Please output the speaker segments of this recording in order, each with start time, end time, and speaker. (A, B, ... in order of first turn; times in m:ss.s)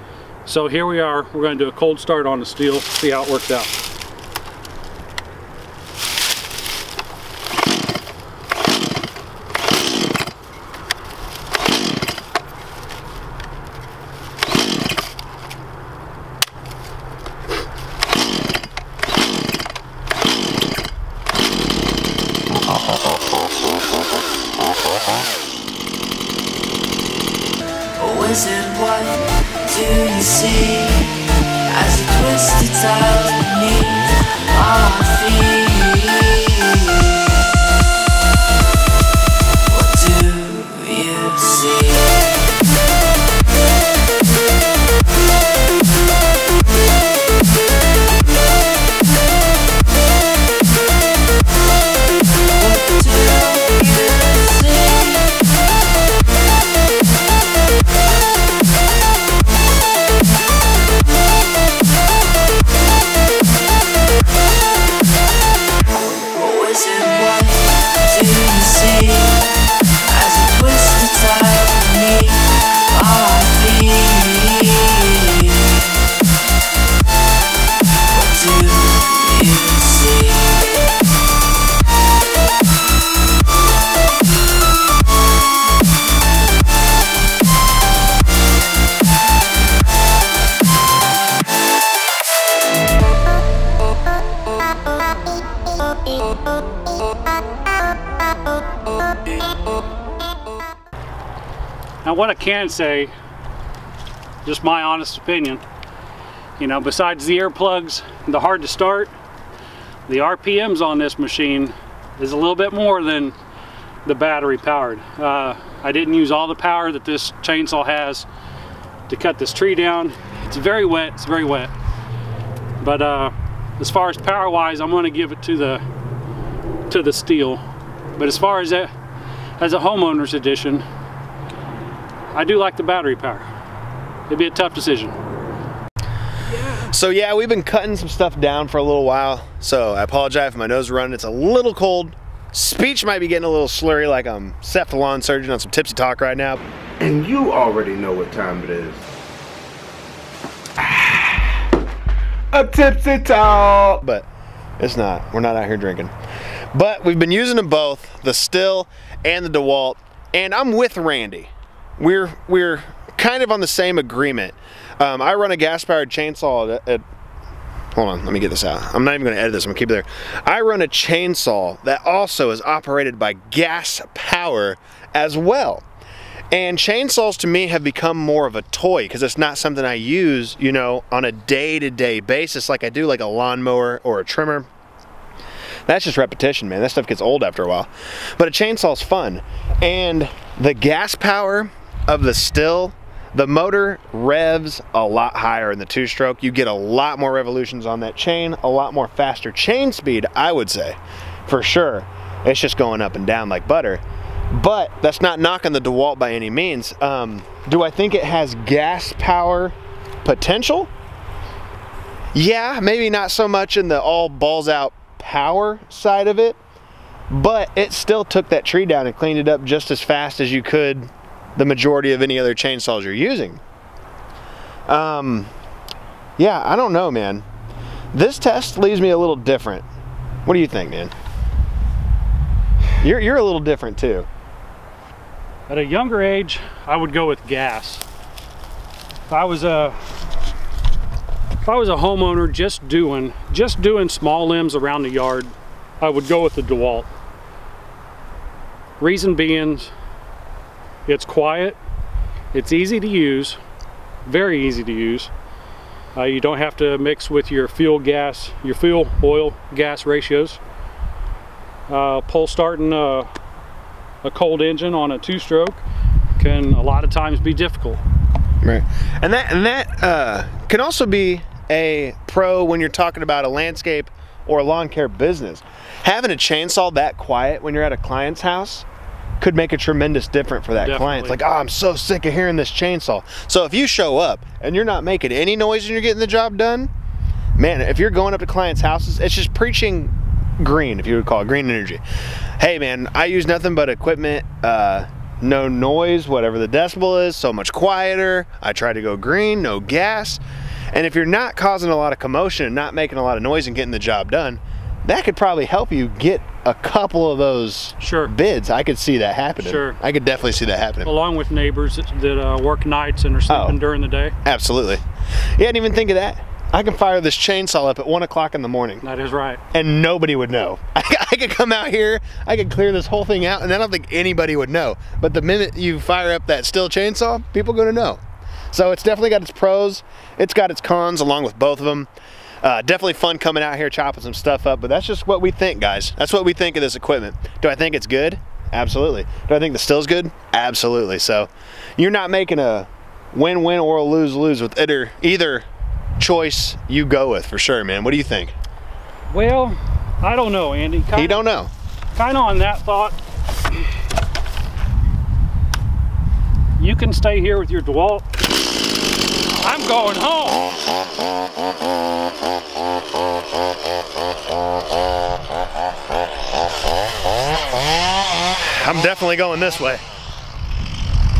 0:00.4-0:03.8 A
0:28.3-0:28.7 A
0:30.1-0:30.7 A
0:32.4-0:32.8 A
0:35.1-0:35.5 A
1:06.6-1:07.1 A
1:08.4-1:08.8 A
1:10.4-1:11.9 A
1:13.2-1:14.1 A
1:42.0-1:43.1 A
1:44.4-1:45.6 A
1:46.6-1:49.1 A
1:50.1-1:53.3 A
1:54.0-1:58.3 A
1:59.1-2:01.7 A
2:02.8-2:05.8 A
2:06.9-2:07.6 A
2:08.2-2:08.9 A
2:09.6-2:10.8 A
2:12.3-2:13.5 A
2:14.3-2:15.2 A
2:16.7-2:26.6 B
2:27.0-2:29.0 C
2:30.8-2:31.6 C
2:32.5-2:34.0 C
2:33.9-2:34.3 B
2:34.8-2:36.1 B
2:36.7-2:47.0 B
2:48.0-2:55.8 B
2:56.5-3:04.7 B
3:05.9-3:30.9 B
3:32.3-3:36.6 B
3:37.3-3:43.6 B
3:44.9-3:45.5 B
3:46.4-3:47.4 B
3:48.1-3:49.8 B
3:50.4-3:51.1 B
3:53.0-3:54.3 B
3:55.7-3:58.0 A
3:59.3-4:00.0 A
4:01.6-4:07.1 A
4:09.0-4:09.9 A
4:11.0-4:11.8 A
4:12.5-4:13.6 A
4:14.2-4:15.3 A
4:16.1-4:20.6 A
4:21.9-4:23.3 A
4:24.2-4:25.8 A
4:26.4-4:28.0 A
4:28.6-4:38.8 B
4:39.4-4:46.9 B
4:40.8-4:41.4 A
4:47.6-4:52.0 B
4:52.6-5:11.1 B
5:08.0-5:08.3 A
5:09.6-5:10.0 A
5:11.0-5:14.3 A
5:13.5-5:13.8 B
5:14.4-5:15.0 B
5:15.6-5:19.0 B
5:19.0-5:19.6 A
5:19.7-5:32.1 B
5:32.6-5:45.6 B
5:46.2-5:48.5 B
5:49.3-5:51.4 A
5:51.1-5:51.7 B
5:52.1-5:53.2 A
5:56.8-5:58.2 A
5:59.6-6:00.9 A
6:08.6-6:10.0 B